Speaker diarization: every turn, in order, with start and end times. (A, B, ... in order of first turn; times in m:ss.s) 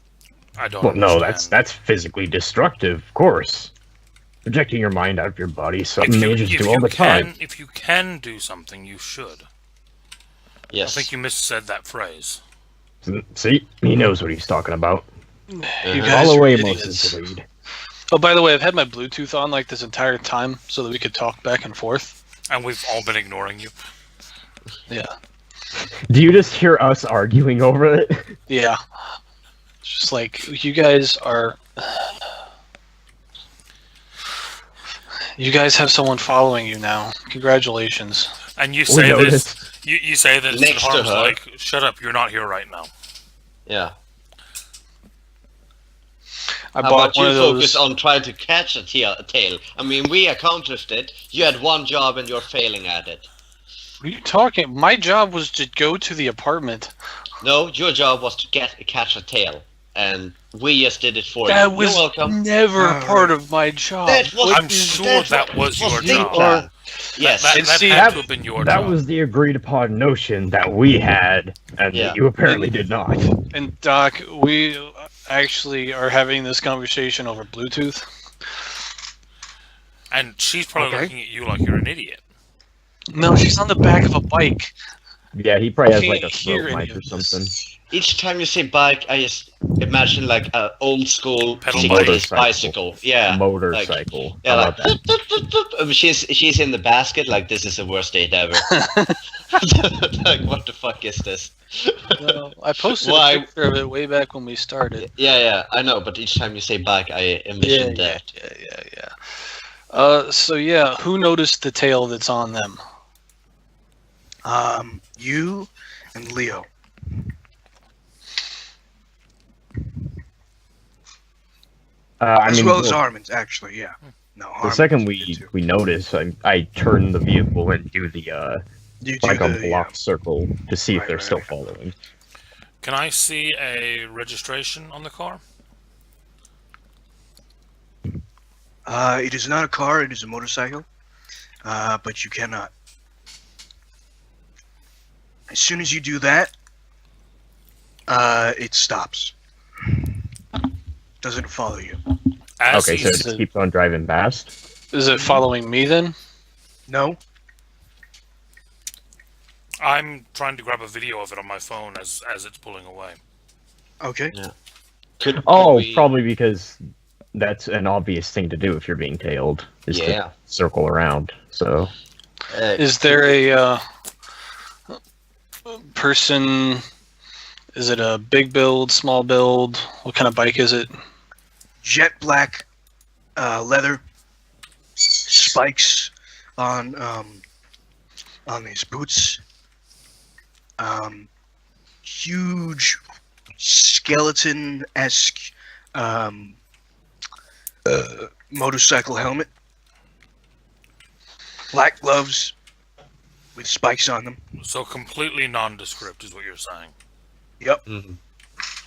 0:00.6-0:01.6 A
0:00.8-0:03.7 B
0:04.4-0:07.3 B
0:06.0-0:09.4 A
0:10.7-0:11.1 C
0:10.8-0:12.4 A
0:13.0-0:15.1 B
0:15.5-0:17.2 D
0:15.8-0:16.3 C
0:16.0-0:17.4 B
0:18.1-0:22.1 D
0:22.5-0:23.7 A
0:26.1-0:28.4 B
0:28.5-0:28.8 D
0:29.8-0:32.2 D
0:35.4-0:38.3 D
0:38.6-0:42.9 A
0:38.9-0:39.6 B
0:40.5-0:41.4 C
0:43.6-0:44.0 C
0:46.7-0:47.8 D
0:46.8-0:53.3 C
0:54.0-0:56.9 D
0:57.4-1:02.4 C
1:01.4-1:05.0 D
1:02.8-1:03.4 E
1:04.0-1:07.8 C
1:04.5-1:06.5 A
1:05.9-1:06.7 D
1:07.2-1:09.0 A
1:07.5-1:08.2 D
1:07.9-1:13.3 B
1:11.9-1:12.2 C
1:13.5-1:18.0 D
1:20.1-1:22.2 A
1:20.8-1:21.1 E
1:23.1-1:24.7 D
1:25.3-1:27.5 B
1:25.9-1:27.4 D
1:27.9-1:38.7 C
1:31.6-1:32.3 A
1:31.7-1:35.0 B
1:38.6-1:39.2 D
1:39.5-1:42.3 C
1:42.2-1:45.1 D
1:42.9-1:43.5 C
1:45.0-1:48.2 C
1:47.6-1:49.1 D
1:49.9-1:52.8 D
1:54.4-1:56.7 E
2:02.2-2:03.0 B
2:02.4-2:05.5 E
2:04.6-2:08.6 B
2:09.0-2:09.9 E
2:09.2-2:11.9 B
2:10.9-2:11.5 E
2:12.8-2:15.4 A
2:18.8-2:20.8 E
2:21.6-2:22.7 E
2:25.5-2:26.5 E
2:28.1-2:29.3 E
2:31.2-2:32.0 E
2:32.6-2:33.3 A
2:32.7-2:34.5 B
2:32.9-2:33.4 D
2:34.9-2:36.1 D
2:35.2-2:35.4 E
2:36.9-2:37.2 E
2:39.8-2:43.2 A
2:44.0-2:44.3 E
2:45.2-2:46.1 C
2:45.4-2:46.8 B
2:47.3-2:51.9 B
2:49.9-2:50.3 C
2:52.5-2:52.9 C
2:52.8-2:53.8 D
2:55.6-2:56.8 D
2:57.7-3:00.9 D
3:01.8-3:02.6 E
3:03.4-3:04.0 E
3:05.2-3:07.4 E
3:08.5-3:09.4 E
3:10.8-3:11.3 E
3:12.0-3:13.0 E
3:13.6-3:16.6 E
3:17.9-3:19.5 E
3:21.7-3:22.5 E
3:23.6-3:24.4 E
3:24.6-3:26.9 A
3:27.9-3:28.2 C